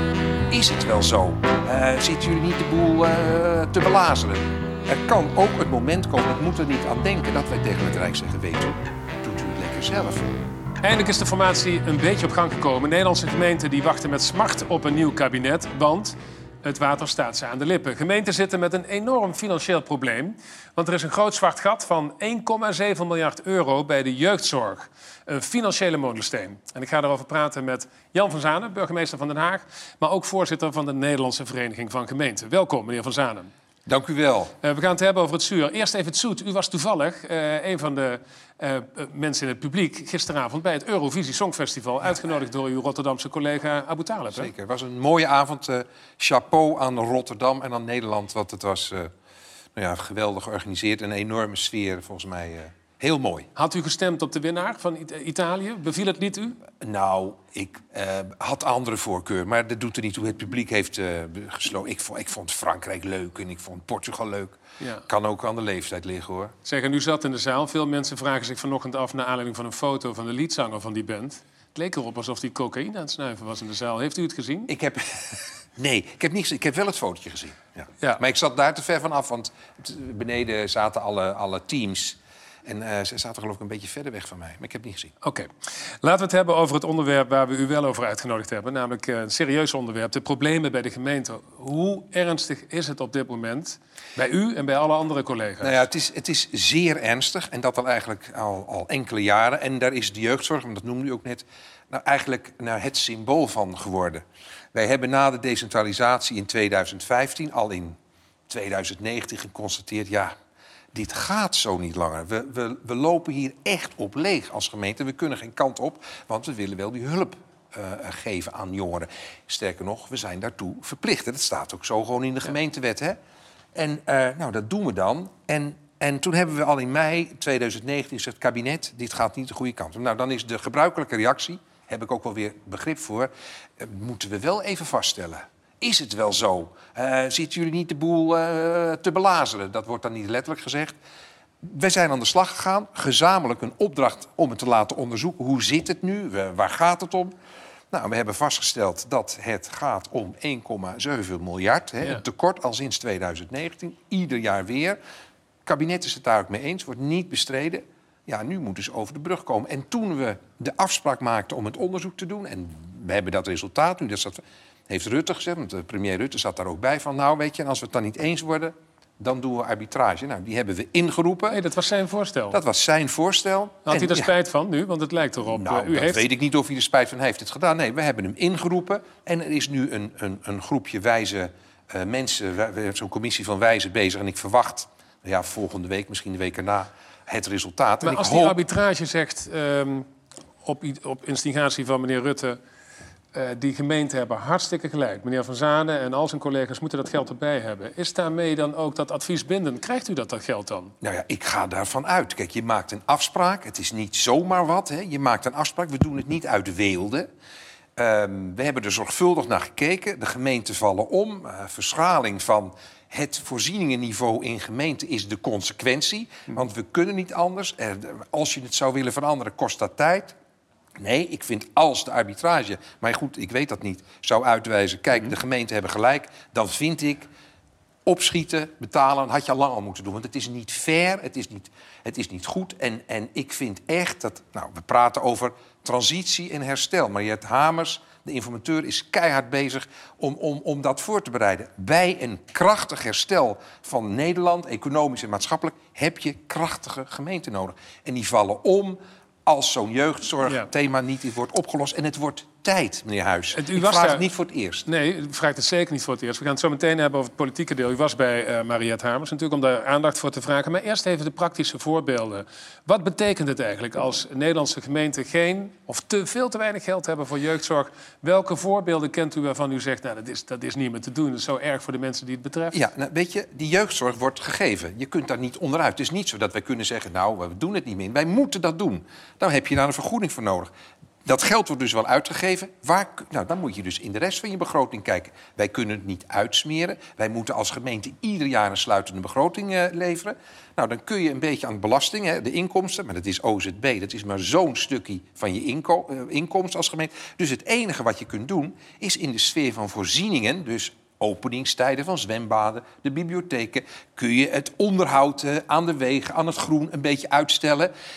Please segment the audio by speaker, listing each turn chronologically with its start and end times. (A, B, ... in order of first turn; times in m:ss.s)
0:00.5-0:10.4 A
0:10.8-0:33.5 B
0:33.9-0:34.5 A
0:34.6-0:44.5 B
0:44.3-0:49.1 A
0:49.8-0:53.5 A
0:53.6-0:56.6 B
0:56.8-1:06.5 A
1:04.8-1:05.0 B
1:06.6-1:14.7 B
1:14.7-1:25.1 A
1:25.2-1:25.5 B
1:26.0-1:35.8 B
1:35.6-1:48.0 A
1:48.5-1:50.3 A
1:50.9-2:03.2 A
2:03.8-2:21.0 A
2:21.6-2:27.3 A
2:27.9-2:35.0 A
2:35.7-2:51.6 A
2:51.5-2:52.6 B
2:52.5-2:54.3 A
2:53.9-2:56.2 B
2:55.5-3:08.6 A
3:08.0-3:10.1 B
3:10.6-3:12.6 B
3:13.3-3:20.9 B
3:21.0-3:27.3 A
3:28.0-3:40.4 A
3:41.0-3:47.3 A
3:48.1-4:14.9 A
4:13.5-4:14.3 B
4:14.9-4:32.8 B
4:32.7-4:40.7 A
4:41.2-5:07.9 A